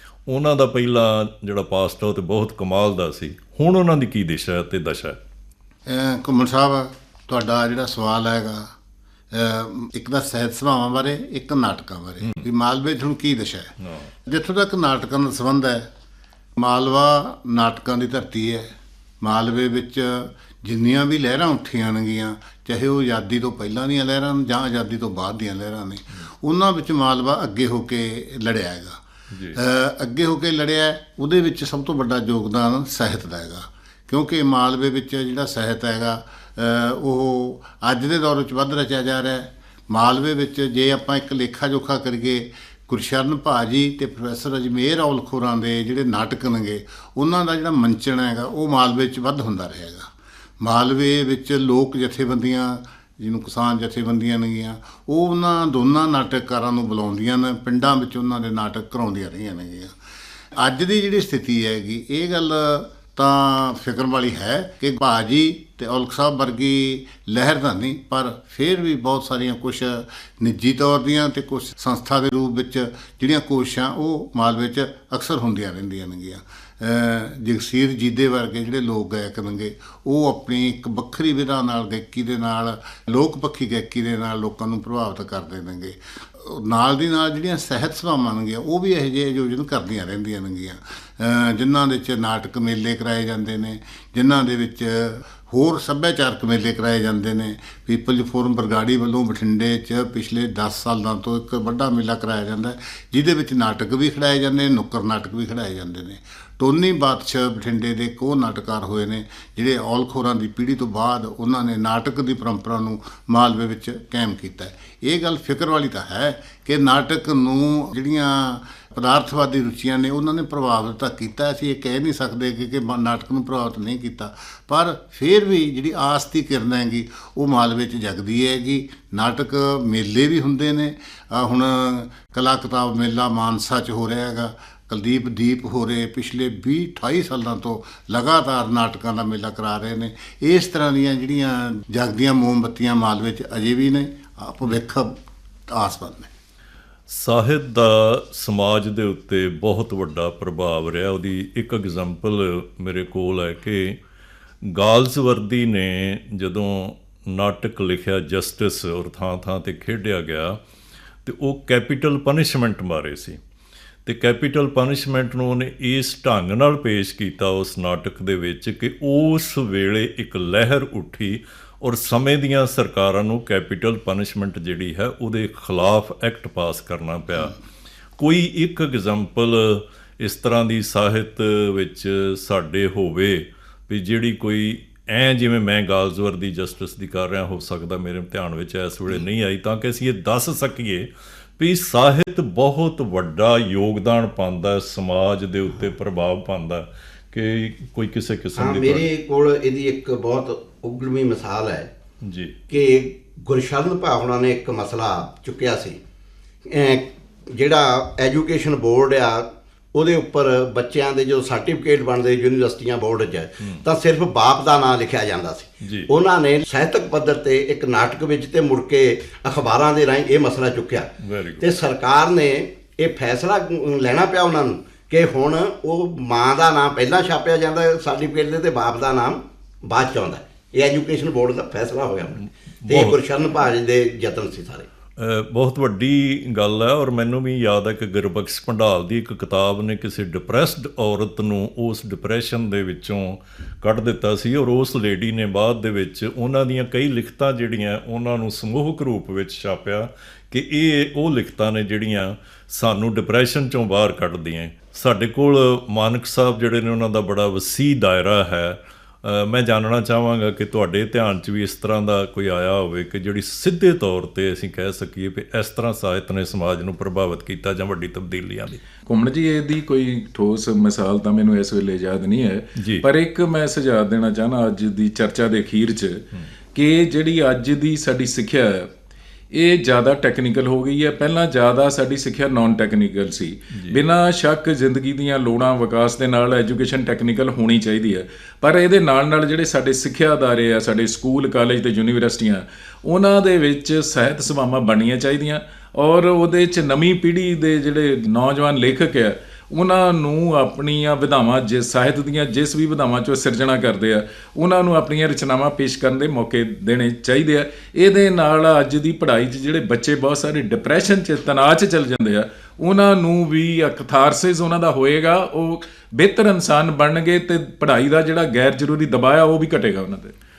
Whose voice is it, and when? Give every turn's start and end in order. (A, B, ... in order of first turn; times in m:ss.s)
0:00.3-0:05.2 A
0:05.9-0:08.7 B
0:09.3-0:13.7 B
0:13.8-0:14.1 A
0:14.2-0:15.9 B
0:16.6-0:18.7 B
0:19.2-0:29.0 B
0:29.3-0:29.6 A
0:29.5-1:00.0 B
1:00.6-2:25.2 B
2:25.7-2:26.3 B
2:27.1-2:34.0 A
2:34.7-2:40.6 A
2:41.2-2:43.4 A
2:44.1-2:57.6 A
2:58.2-3:19.0 A
3:18.6-3:21.9 C
3:22.2-3:22.6 A
3:22.7-3:26.0 C
3:26.7-3:41.1 C
3:35.8-3:36.1 A
3:41.2-3:41.7 A
3:41.6-3:54.9 C
3:52.9-3:53.2 A
3:55.2-4:28.8 A
4:29.1-4:38.9 D
4:32.8-4:33.0 A
4:39.5-5:20.3 D
4:43.7-4:44.0 A